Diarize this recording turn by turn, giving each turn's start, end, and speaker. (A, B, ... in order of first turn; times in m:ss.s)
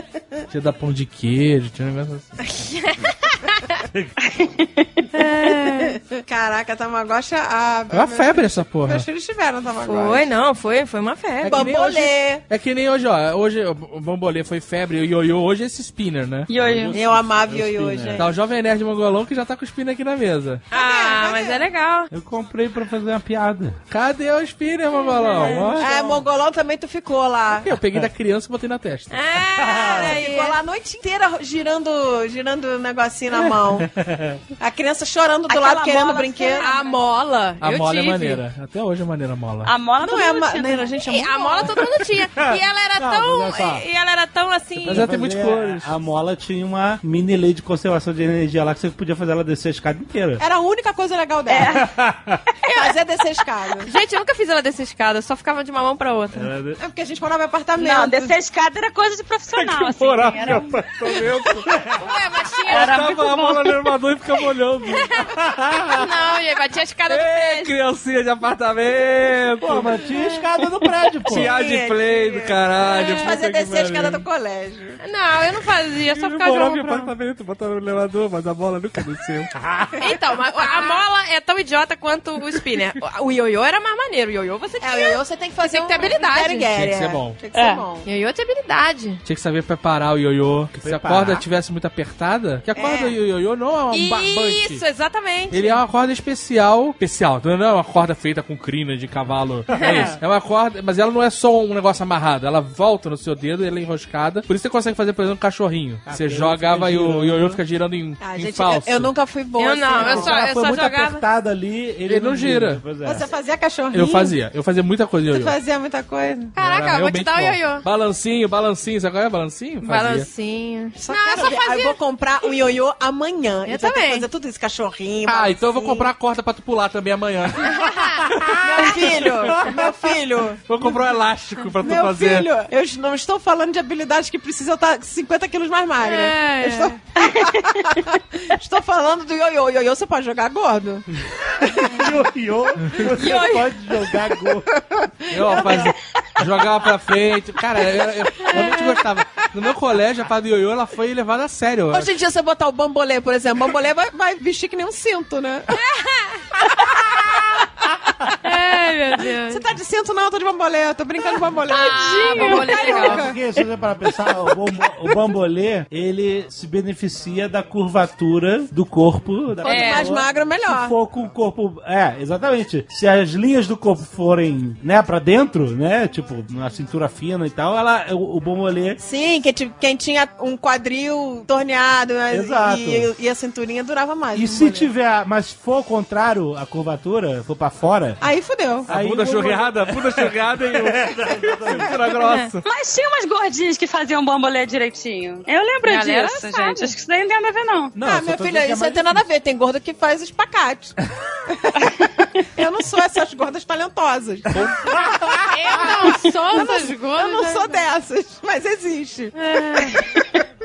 0:00.5-0:02.4 A
0:02.4-0:03.8 B
0:04.2-0:05.0 C
0:05.1-0:06.0 B
0:05.8-0:10.3 D
0:07.9-0:09.1 A
0:09.8-0:11.7 B
0:11.4-0:16.5 A
0:11.4-0:12.4 D
0:16.5-0:17.0 C
0:16.5-0:18.3 E
0:16.9-0:18.4 D
0:18.2-0:20.6 A
0:20.7-0:21.6 D
0:20.7-0:22.1 B
0:22.1-0:23.8 E
0:23.9-0:25.9 A
0:24.9-0:26.0 B
0:25.5-0:26.2 E
0:25.8-0:27.7 D
0:27.5-0:29.2 A
0:29.1-0:30.6 B
0:29.6-0:30.2 E
0:30.0-0:33.9 D
0:33.8-0:34.4 E
0:34.6-0:36.7 D
0:35.5-0:37.0 C
0:36.5-0:38.4 B
0:37.6-0:39.7 A
0:39.6-0:41.0 C
0:40.0-0:41.9 D
0:41.0-0:45.1 B
0:42.4-0:43.8 E
0:44.8-0:50.4 E
0:44.9-0:45.9 A
0:50.4-0:51.9 D
0:51.5-0:51.9 C
0:51.6-0:52.4 E
0:52.6-0:52.9 C
0:52.7-0:53.9 D
0:53.8-0:56.5 B
0:56.3-0:56.8 E
0:56.8-0:58.4 D
0:57.8-1:00.7 C
0:59.6-1:01.7 A
1:01.7-1:02.0 E
1:02.0-1:03.1 B
1:02.7-1:03.9 C
1:02.7-1:05.1 A
1:05.3-1:06.1 E
1:05.9-1:07.7 B
1:07.1-1:09.9 A
1:09.6-1:11.5 E
1:11.3-1:14.3 A
1:11.4-1:15.0 D
1:13.0-1:13.3 B
1:15.0-1:17.1 B
1:16.1-1:19.5 A
1:19.5-1:20.2 E
1:20.0-1:26.7 B
1:20.6-1:21.0 D
1:24.8-1:28.1 D
1:26.7-1:27.4 A
1:27.5-1:27.8 C
1:28.0-1:29.2 B
1:29.2-1:34.8 A
1:30.8-1:31.4 E
1:32.8-1:33.2 D
1:33.9-1:35.8 B
1:35.5-1:49.1 A
1:39.7-1:40.2 E
1:39.8-1:40.1 B
1:46.1-1:47.6 E
1:48.2-1:50.4 D
1:49.6-1:51.2 B
1:50.0-1:53.3 E
1:52.1-1:52.8 A
1:53.0-1:54.4 D
1:53.9-1:55.6 A
1:55.3-1:56.6 D
1:56.6-1:57.9 B
1:56.6-2:00.3 A
1:59.8-2:02.0 B
2:01.0-2:06.1 D
2:03.7-2:04.3 B
2:05.3-2:09.3 A
2:07.7-2:08.3 B
2:08.0-2:08.8 E
2:08.6-2:11.0 D
2:09.5-2:10.1 E
2:10.7-2:12.5 A
2:11.8-2:21.0 D
2:16.0-2:17.0 B
2:21.3-2:24.7 E
2:23.2-2:23.6 B
2:25.0-2:25.9 D
2:25.3-2:32.1 A
2:28.5-2:28.8 B
2:31.9-2:35.8 D
2:35.7-2:36.7 B
2:38.4-2:39.6 B
2:39.4-2:43.4 D
2:41.7-2:43.3 B
2:42.4-2:59.0 E
2:49.6-2:51.0 D
2:49.6-2:50.2 B
2:59.0-3:04.9 D
3:02.3-3:03.1 E
3:04.3-3:08.2 E
3:08.2-3:08.9 D
3:08.9-3:12.0 E
3:08.9-3:12.6 A
3:12.6-3:17.9 C
3:15.8-3:16.9 B
3:18.0-3:19.3 E
3:18.0-3:21.0 D
3:21.5-3:21.9 D
3:22.6-3:24.7 D
3:24.6-3:25.8 E
3:25.5-3:27.8 B
3:25.8-3:30.2 D
3:29.4-3:30.1 B